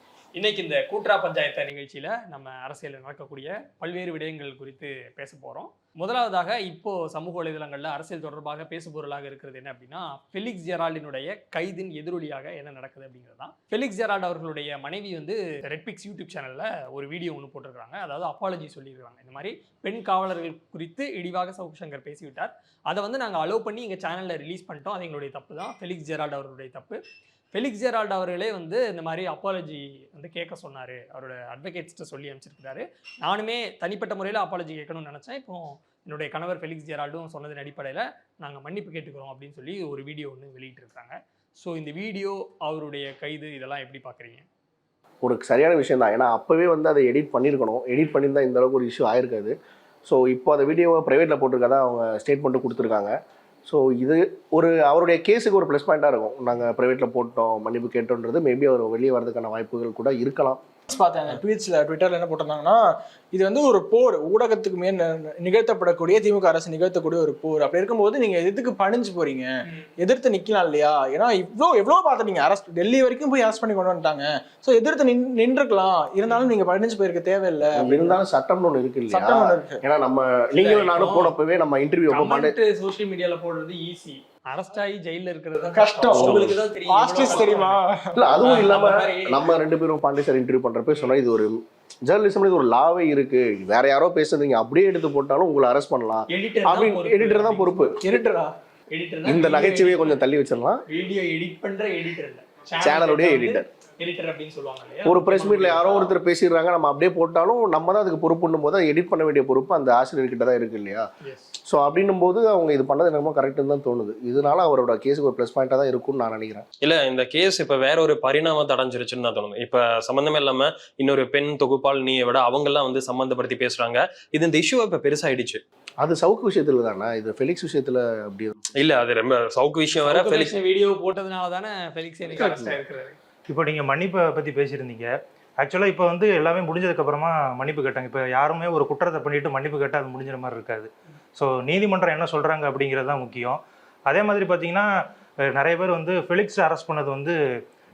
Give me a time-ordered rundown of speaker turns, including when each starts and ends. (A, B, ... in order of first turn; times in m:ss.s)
0:00.4-0:27.0 A
0:27.5-0:44.5 A
0:45.2-0:49.5 B
0:50.0-1:00.6 B
1:00.9-1:18.2 C
1:17.7-1:22.5 B
1:19.1-1:19.8 C
1:20.6-1:21.3 A
1:22.1-1:27.8 A
1:25.7-1:28.2 C
1:26.2-1:26.5 B
1:28.1-1:37.9 B
1:28.4-1:29.5 A
1:36.3-1:38.0 A
1:38.0-1:38.5 C
1:38.9-1:40.2 A
1:39.2-1:40.8 B
1:40.9-1:46.1 A
1:42.8-1:43.7 B
1:45.0-1:51.0 B
1:51.2-1:51.5 A
1:51.7-1:56.6 B
1:56.8-2:05.6 D
2:06.0-2:08.6 B
2:08.8-2:10.5 D
2:10.0-2:13.2 A
2:12.4-2:12.8 B
2:13.5-2:24.9 E
2:25.5-2:27.4 E